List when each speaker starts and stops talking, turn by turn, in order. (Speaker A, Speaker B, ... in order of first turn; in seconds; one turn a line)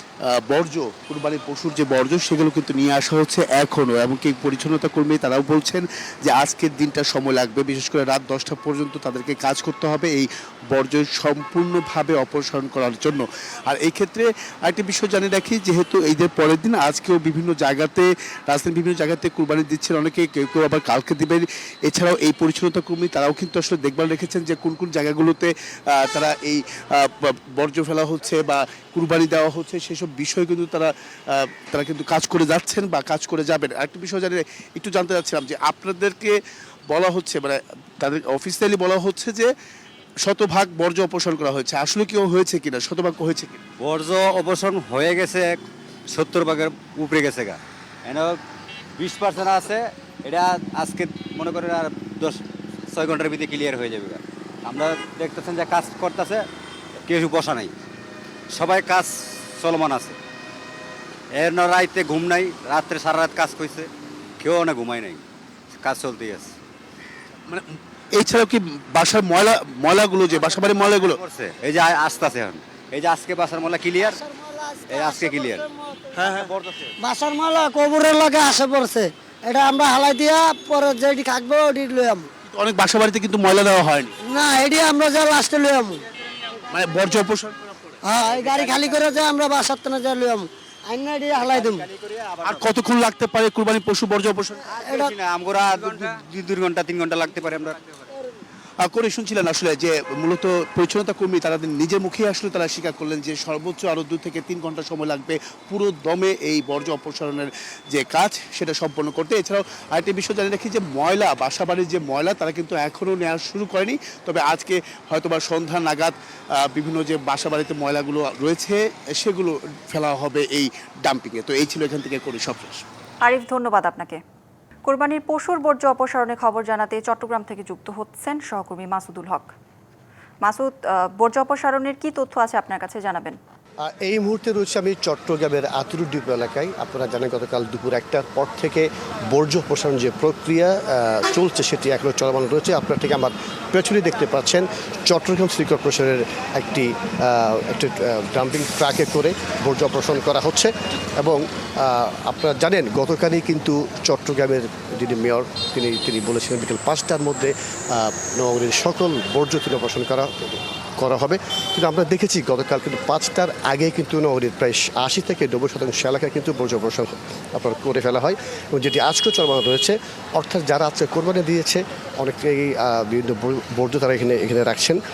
Speaker A: 0.3-36.4
Speaker A: 36.9-39.5
Speaker A: 40.2-43.6
Speaker B: 43.8-45.6
Speaker B: 46.1-48.4
Speaker B: 49.0-56.5
Speaker B: 57.0-57.7
Speaker B: 58.5-60.2
Speaker B: 61.3-63.9
Speaker B: 64.4-65.2
Speaker B: 65.8-66.5
Speaker A: 67.5-71.2
Speaker B: 70.3-74.2
Speaker B: 74.9-76.9
Speaker C: 75.0-75.6
Speaker A: 76.2-76.5
Speaker C: 77.0-82.3
Speaker A: 82.5-84.1
Speaker C: 84.2-86.0
Speaker A: 86.7-87.6
Speaker C: 88.0-91.9
Speaker B: 88.4-88.7
Speaker B: 91.4-92.6
Speaker A: 92.4-94.7
Speaker B: 94.7-97.8
Speaker C: 94.7-95.2
Speaker A: 98.8-122.9
Speaker D: 123.2-124.2
Speaker D: 124.8-129.5
Speaker D: 130.4-133.4
Speaker E: 133.8-175.0